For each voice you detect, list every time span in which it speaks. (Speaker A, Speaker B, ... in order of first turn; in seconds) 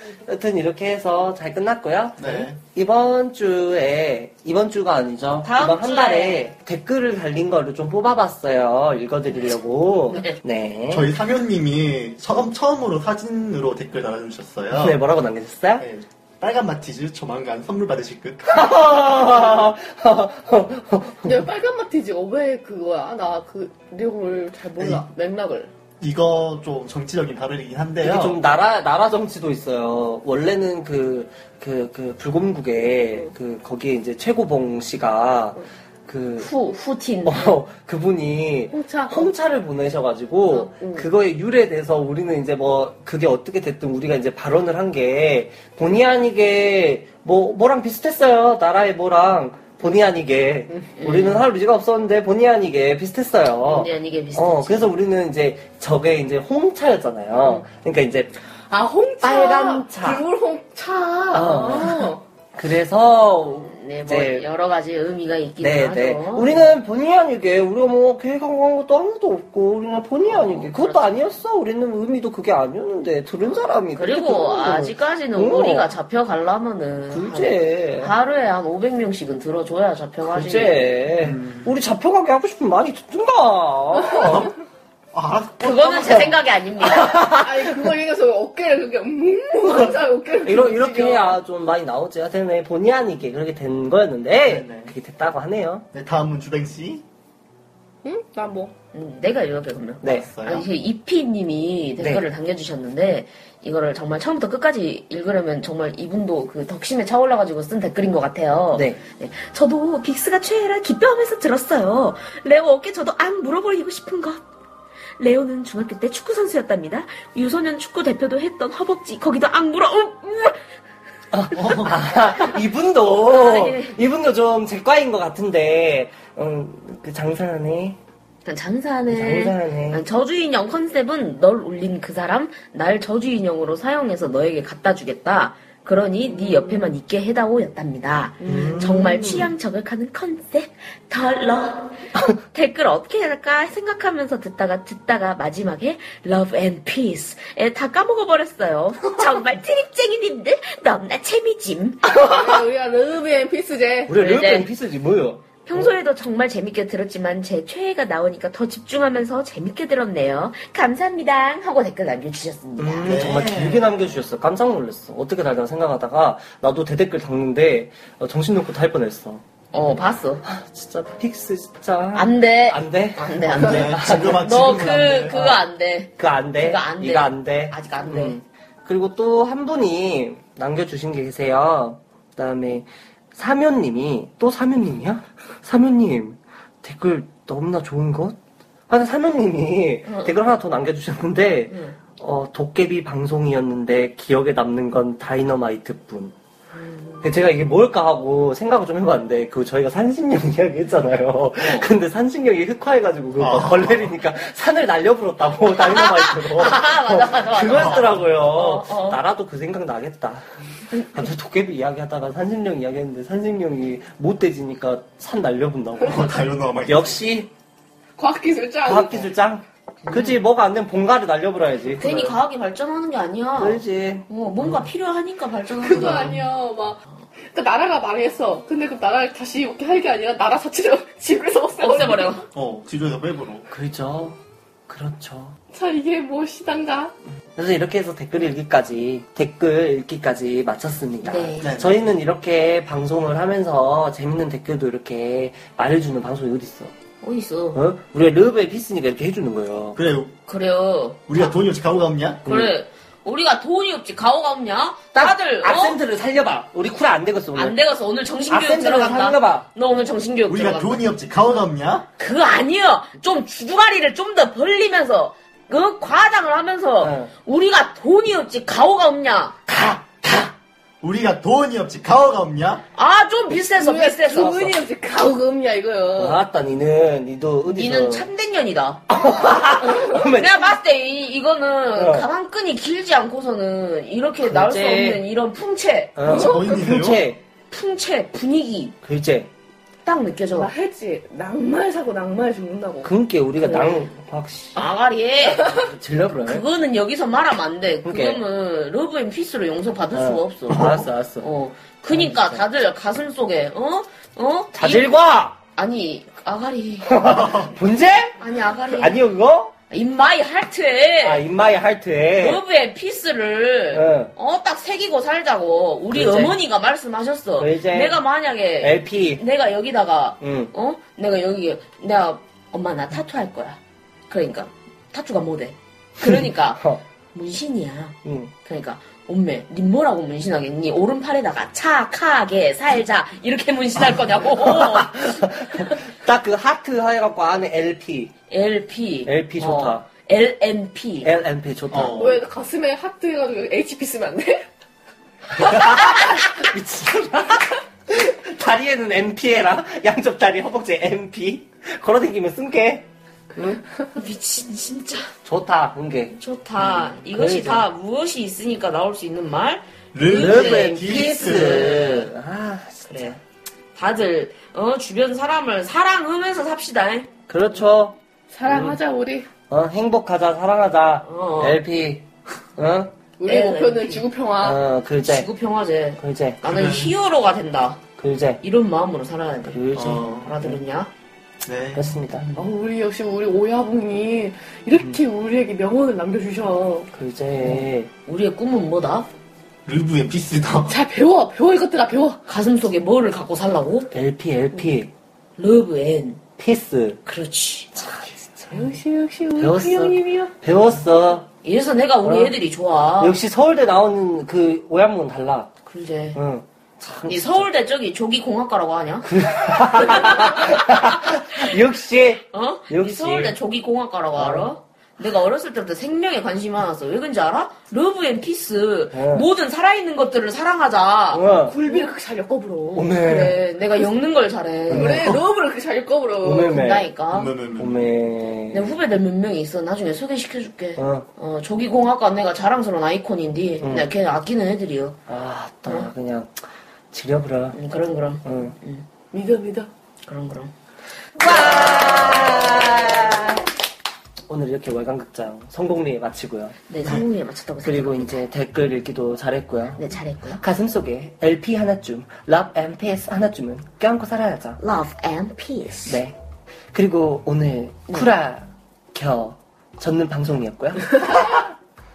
Speaker A: 0.3-11.1, 14.7-15.9, 18.5-21.4, 28.0-36.5, 37.3-58.4, 59.2-60.2, 61.3-64.5, 65.6-75.9, 77.1-78.1, 80.2-84.5, 87.0-87.4, 90.4-95.9, 100.0-100.3, 102.0-102.2, 108.7-109.0, 121.3-128.0, 129.1-130.0, 138.4-139.5, 154.1-155.9, 162.8-169.4, 170.4-175.6, 176.2-188.4, 188.9-196.3, 197.2-210.4, 211.0-217.5, 218.8-222.4, 223.6-224.8, 233.7-235.6, 237.6-246.9, 247.8-250.0, 252.5-252.7, 255.1-257.8, 258.5-259.7, 267.0-267.3, 276.2-278.3, 279.1-280.8, 282.0-282.3, 284.4-285.2, 286.2-287.4, 289.0-289.5, 293.0-294.9, 295.7-296.6, 298.1-298.4, 300.1-301.5, 302.1-302.6, 304.7-305.6, 307.1-309.7, 311.2-312.6, 313.9-314.3, 316.1-316.6, 317.6-318.2, 318.8-319.4, 320.4-320.7, 326.3-327.0, 328.2-328.5, 334.4-338.4, 339.3-340.1, 341.2-342.4, 345.5-353.1, 355.4-357.9, 360.3-363.4, 367.5-368.2, 368.7-369.0, 369.7-373.1, 374.6-375.5, 376.2-376.6, 378.2-378.6, 379.7-380.8, 381.9-382.5, 387.1-388.1, 394.1-395.1, 396.6-397.2, 397.9-398.9, 399.6-401.5, 402.2-402.5, 403.2-405.7, 406.4-407.7, 409.3-413.5, 414.4-414.7, 419.1-419.5, 421.3-421.8, 422.9-423.6, 424.9-425.3, 426.4-427.1, 427.8-428.9, 431.0-431.3, 433.8-434.1, 435.3-436.5, 437.1-437.8, 438.4-438.7, 441.4-443.7, 444.5-447.2, 447.8-454.8, 456.1-456.4, 456.9-461.6
Speaker B: 2.2-2.6, 10.9-15.0, 15.8-18.8, 24.8-25.1, 26.0-28.4, 81.2-81.7, 84.1-84.5, 85.1-86.3, 94.4-94.9, 95.9-97.0, 100.0-100.7, 121.5-122.1, 163.0-164.0, 173.4-175.3, 203.4-204.1, 216.0-217.2, 232.5-233.7, 241.6-242.1, 249.9-250.3, 251.3-252.6, 260.5-262.1, 271.0-272.9, 286.3-287.2, 307.3-307.7, 341.9-342.4, 360.1-362.0, 376.6-377.1, 379.9-380.5, 381.6-382.0, 389.9-391.0, 425.0-425.4, 427.3-428.1
Speaker C: 5.4-6.5, 10.1-10.4, 36.4-37.6, 51.0-51.5, 53.6-55.0, 63.6-66.7, 70.2-71.2, 74.0-81.0, 85.6-87.3, 98.9-114.4, 115.2-120.6, 123.3-123.9, 128.4-152.1, 154.1-154.7, 155.6-163.2, 169.7-170.4, 172.1-178.4, 191.7-192.0, 196.8-197.2, 205.9-209.2, 210.9-211.2, 220.1-220.4, 221.9-226.4, 231.8-232.4, 241.2-241.7, 247.2-247.8, 250.5-251.5, 252.5-256.0, 257.6-261.0, 262.2-270.5, 272.9-274.8, 277.7-286.6, 287.7-289.0, 290.1-290.7, 293.6-294.1, 294.8-295.9, 296.4-305.2, 305.7-307.4, 308.4-309.2, 309.9-311.5, 312.4-323.8, 324.3-336.0, 338.5-341.3, 354.2-355.3, 356.3-362.3, 363.1-363.4, 363.9-367.3, 371.3-371.8, 373.4-374.3, 375.2-378.0, 378.6-381.1, 382.4-382.7, 387.6-389.3, 392.5-394.1, 395.6-396.4, 397.3-398.0, 401.6-403.4, 405.9-406.4, 407.2-411.6, 412.5-421.4, 423.2-425.3, 426.7-427.6, 428.7-435.2, 437.7-439.1, 440.3-440.7, 441.4-442.8, 446.9-448.4, 450.0-450.6, 454.8-456.2
Speaker D: 21.2-25.7, 38.7-39.3, 40.5-41.1, 58.7-62.2, 87.3-91.4, 98.0-98.7, 138.4-139.0, 152.1-154.2, 218.2-219.3, 225.8-227.0, 227.5-232.4, 235.7-237.1, 273.8-276.4, 286.3-286.8, 290.5-293.1, 342.2-344.7, 353.5-353.8, 368.5-369.5, 373.4-374.8, 382.6-387.1, 390.9-392.4, 398.7-400.5, 421.4-423.1, 424.9-427.0, 439.3-439.9